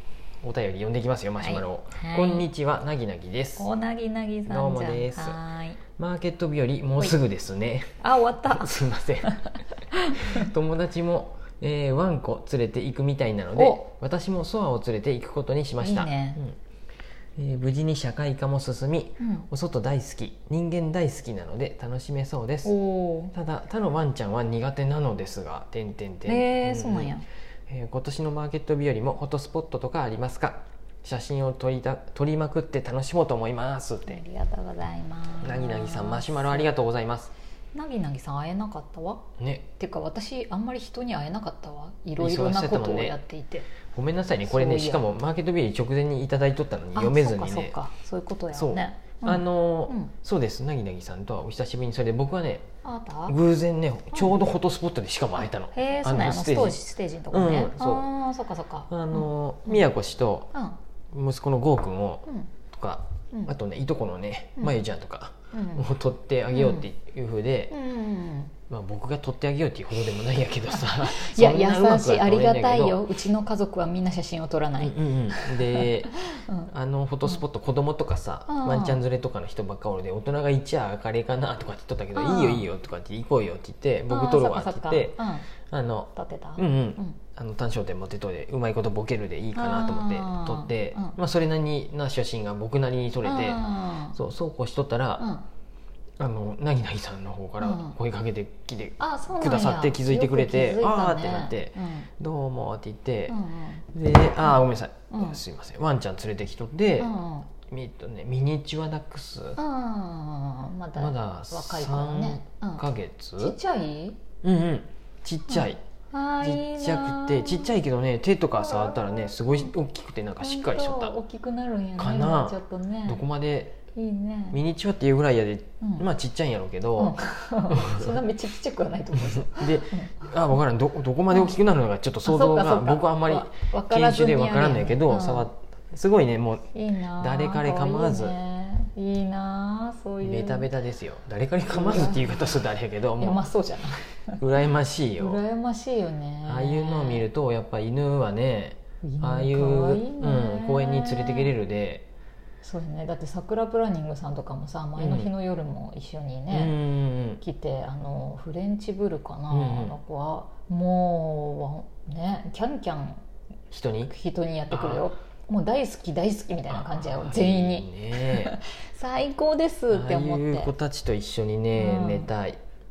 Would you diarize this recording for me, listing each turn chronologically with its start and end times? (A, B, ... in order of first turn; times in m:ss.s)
0:00.4-0:03.7 A
0:01.4-0:02.5 B
0:03.6-0:05.8 B
0:04.4-0:05.4 A
0:06.0-0:09.5 A
0:08.0-0:09.4 B
0:09.9-0:10.5 B
0:10.1-0:16.6 A
0:13.6-0:13.8 B
0:15.8-0:16.4 B
0:17.4-0:22.7 A
0:19.2-0:19.5 B
0:22.6-0:23.3 B
0:23.3-0:27.2 A
0:26.2-0:27.2 B
0:27.7-0:34.2 A
0:34.0-0:36.7 B
0:35.4-0:37.3 A
0:37.7-0:39.2 B
0:39.4-0:39.6 A
0:39.8-0:43.7 B
0:42.2-0:43.2 A
0:43.8-0:47.8 A
0:44.4-0:45.1 B
0:46.9-0:50.1 B
0:48.5-0:52.6 A
0:52.8-0:53.4 B
0:53.3-0:58.1 A
0:54.1-0:54.4 B
0:55.7-0:59.8 B
0:58.9-1:00.5 A
1:01.1-1:07.7 A
1:05.5-1:05.8 B
1:06.5-1:06.8 B
1:07.7-1:08.5 B
1:08.7-1:13.0 A
1:10.7-1:16.7 B
1:14.8-1:35.3 A
1:18.5-1:19.0 B
1:22.1-1:22.7 B
1:24.1-1:25.5 B
1:26.1-1:27.2 B
1:29.5-1:31.2 B
1:33.2-1:34.2 B
1:35.2-1:35.4 B
1:36.2-1:43.4 A
1:37.6-1:38.0 B
1:39.0-1:42.1 B
1:43.3-1:43.8 B
1:43.9-1:49.6 A
1:45.1-1:45.4 B
1:47.0-1:47.5 B
1:49.6-1:52.8 B
1:51.0-1:53.6 A
1:53.4-1:54.2 B
1:54.4-1:55.8 A
1:55.5-1:57.8 B
1:56.4-2:01.2 A
1:58.6-1:59.7 B
2:00.4-2:03.2 B
2:02.0-2:03.8 A
2:03.9-2:04.6 B
2:04.5-2:07.2 A
2:07.0-2:10.1 B
2:07.7-2:08.2 A
2:09.1-2:18.4 A
2:12.2-2:15.5 B
2:16.7-2:20.7 B
2:20.2-2:23.4 A
2:21.7-2:22.6 B
2:23.2-2:24.4 B
2:24.4-2:25.4 A
2:25.2-2:27.2 B
2:26.4-2:32.0 A
2:29.0-2:31.5 B
2:32.6-2:36.8 B
2:35.0-2:35.3 A
2:36.5-2:37.4 A
2:37.4-2:43.2 B
2:39.5-2:40.0 A
2:43.7-2:44.1 A
2:44.1-2:50.7 B
2:44.7-2:45.0 A
2:46.7-2:48.5 A
2:49.9-2:52.6 A
2:51.7-2:52.3 B